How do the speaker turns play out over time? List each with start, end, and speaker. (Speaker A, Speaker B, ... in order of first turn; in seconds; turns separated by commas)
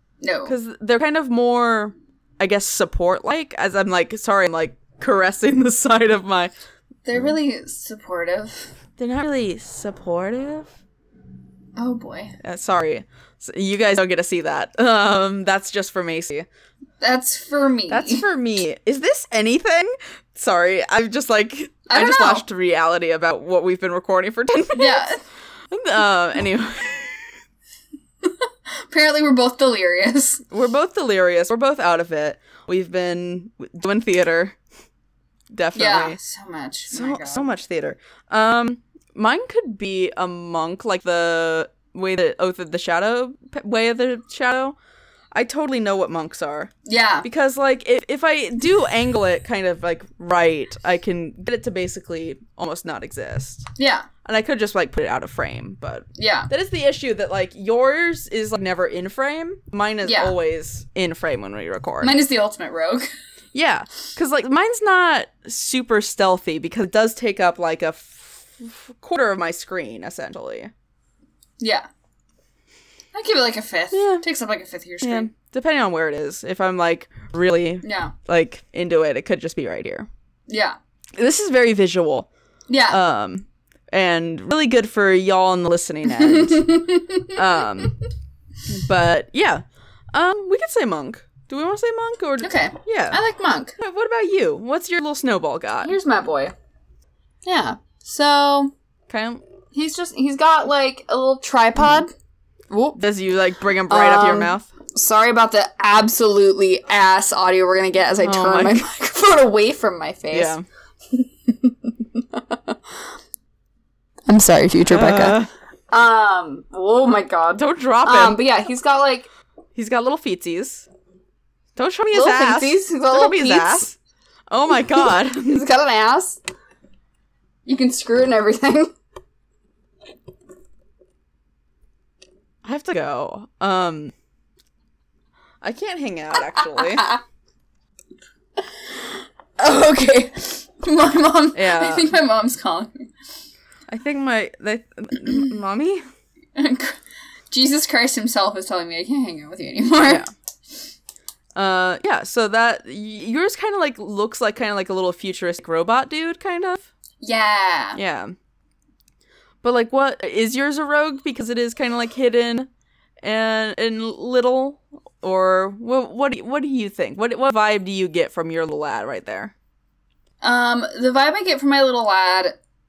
Speaker A: 0.2-0.6, Speaker B: 0.5-6.5, Speaker A: 7.1-8.7, Speaker B: 9.0-10.7, Speaker A: 11.8-12.4, Speaker B: 12.4-16.5, Speaker A: 17.0-18.2, Speaker B: 17.9-25.1, Speaker A: 21.9-22.4, Speaker A: 24.7-25.2, Speaker B: 25.7-27.3, Speaker A: 28.2-30.4, Speaker B: 30.5-34.6, Speaker B: 35.5-36.2, Speaker A: 35.8-37.5, Speaker B: 36.9-44.8, Speaker B: 45.3-46.7, Speaker A: 46.9-47.3, Speaker B: 47.2-53.7, Speaker A: 53.8-54.1, Speaker B: 54.2-62.2, Speaker A: 56.2-56.5, Speaker A: 60.0-60.3, Speaker A: 62.0-63.1, Speaker B: 63.5-70.7, Speaker A: 71.6-71.9, Speaker A: 73.1-75.3, Speaker B: 73.9-74.2, Speaker B: 75.0-80.1, Speaker A: 77.8-78.2, Speaker A: 80.5-80.8, Speaker B: 81.2-82.3, Speaker A: 82.7-83.0, Speaker B: 82.9-88.0, Speaker A: 86.2-87.4, Speaker B: 88.7-93.2, Speaker A: 92.4-93.8, Speaker B: 93.8-96.0, Speaker A: 95.8-96.5, Speaker A: 97.5-98.7, Speaker B: 99.1-99.4, Speaker A: 99.7-102.1, Speaker A: 102.7-103.0, Speaker B: 103.0-104.7, Speaker A: 103.9-110.6, Speaker B: 108.2-108.9, Speaker B: 110.3-110.7, Speaker A: 111.1-113.0, Speaker A: 114.3-115.4, Speaker B: 114.9-115.5, Speaker A: 115.9-119.3, Speaker B: 117.6-118.4, Speaker B: 119.8-120.9, Speaker B: 121.8-124.0, Speaker A: 122.1-123.9, Speaker B: 124.5-125.6, Speaker A: 124.9-126.4, Speaker A: 127.7-128.9, Speaker B: 132.6-134.1, Speaker B: 135.6-137.1, Speaker A: 136.5-137.2, Speaker A: 138.6-143.1, Speaker B: 141.6-142.1, Speaker B: 143.9-146.0, Speaker A: 146.6-147.0, Speaker A: 147.5-150.2, Speaker B: 151.6-156.9, Speaker A: 157.2-158.0, Speaker B: 158.0-158.3, Speaker B: 159.6-162.7, Speaker B: 163.2-169.5, Speaker A: 170.4-172.6